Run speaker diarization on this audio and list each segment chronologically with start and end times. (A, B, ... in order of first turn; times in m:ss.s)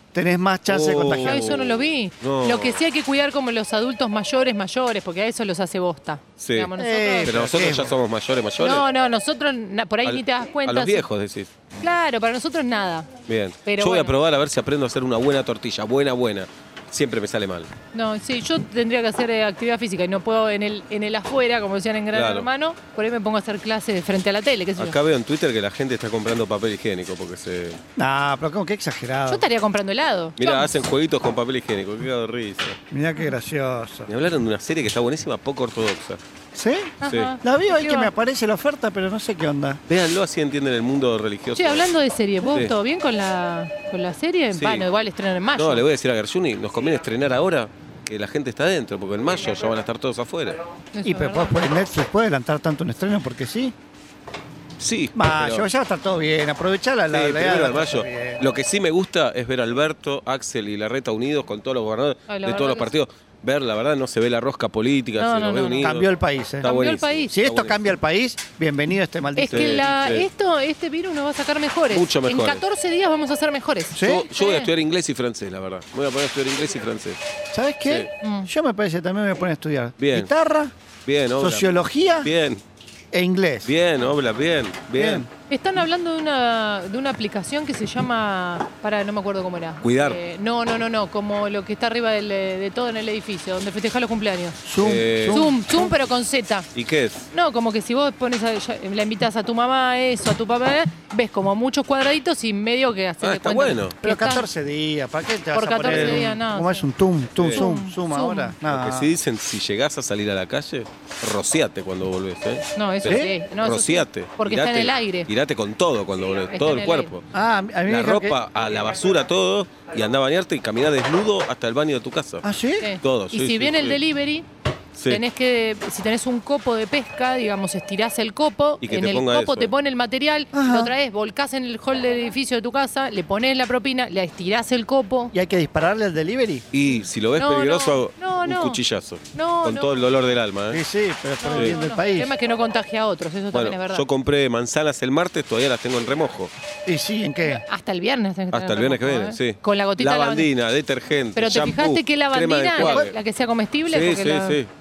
0:00.1-0:01.5 A
0:00.7-0:02.8 B
0:01.2-0:07.3 C
0:06.4-0:06.7 B
0:06.8-0:08.0 A
0:07.2-0:08.8 B
0:08.6-0:11.1 C
0:10.0-0:11.5 B
0:11.7-0:13.1 C
0:13.3-0:17.7 B
0:13.6-0:14.1 C
0:17.9-0:24.9 C
0:22.1-0:22.5 B
0:24.8-0:27.8 B
0:28.0-0:29.4 A
0:29.3-0:30.7 C
0:30.4-0:32.8 B
0:32.9-0:34.1 A
0:34.1-0:36.2 B
0:36.5-0:39.8 A
0:37.0-0:38.1 C
0:37.0-0:37.3 B
0:39.9-0:41.9 B
0:41.6-0:45.8 C
0:42.5-0:42.7 B
0:44.5-0:44.9 B
0:45.5-0:50.6 B
0:50.9-0:51.6 C
0:51.0-0:53.7 A
0:54.8-0:55.7 B
0:55.1-0:58.4 A
0:57.1-1:07.8 B
1:02.3-1:03.0 C
1:05.2-1:05.9 C
1:05.8-1:06.7 A
1:06.6-1:07.3 C
1:07.3-1:09.9 A
1:09.4-1:14.7 C
1:09.5-1:10.3 B
1:11.9-1:12.6 B
1:14.0-1:14.2 A
1:14.0-1:17.2 B
1:17.5-1:20.7 A
1:17.8-1:18.1 B
1:18.2-1:18.5 C
1:20.0-1:20.3 B
1:21.0-1:22.6 B
1:21.4-1:22.3 A
1:23.1-1:23.7 A
1:23.6-1:25.3 B
1:25.0-1:25.3 A
1:25.5-1:34.6 C
1:29.8-1:30.2 B
1:34.6-1:35.9 A
1:34.8-1:35.4 B
1:35.2-1:36.7 C
1:36.7-1:37.3 B
1:37.3-1:44.4 C
1:43.2-1:44.0 B
1:44.0-1:49.1 A
1:45.5-1:46.8 C
1:45.8-1:46.2 B
1:47.4-1:47.6 B
1:47.5-1:48.5 C
1:48.7-1:57.3 B
1:52.7-1:55.3 C
1:53.1-1:53.3 A
1:56.5-1:57.1 C
1:57.3-1:58.4 A
1:57.8-2:02.4 B
2:02.4-2:02.9 A
2:02.8-2:04.4 C
2:03.0-2:04.0 B
2:04.9-2:05.2 B
2:05.1-2:15.3 C
2:08.8-2:09.7 B
2:10.5-2:10.9 A
2:15.3-2:16.6 A
2:16.7-2:20.8 B
2:17.4-2:18.8 C
2:19.3-2:20.0 C
2:20.7-2:22.3 A
2:21.4-2:24.0 C
2:21.5-2:21.8 B
2:23.5-2:26.5 B
2:26.8-2:27.6 A
2:27.4-2:30.5 C
2:28.5-2:33.1 B
2:31.3-2:34.6 C
2:32.8-2:33.1 A
2:33.9-2:34.7 B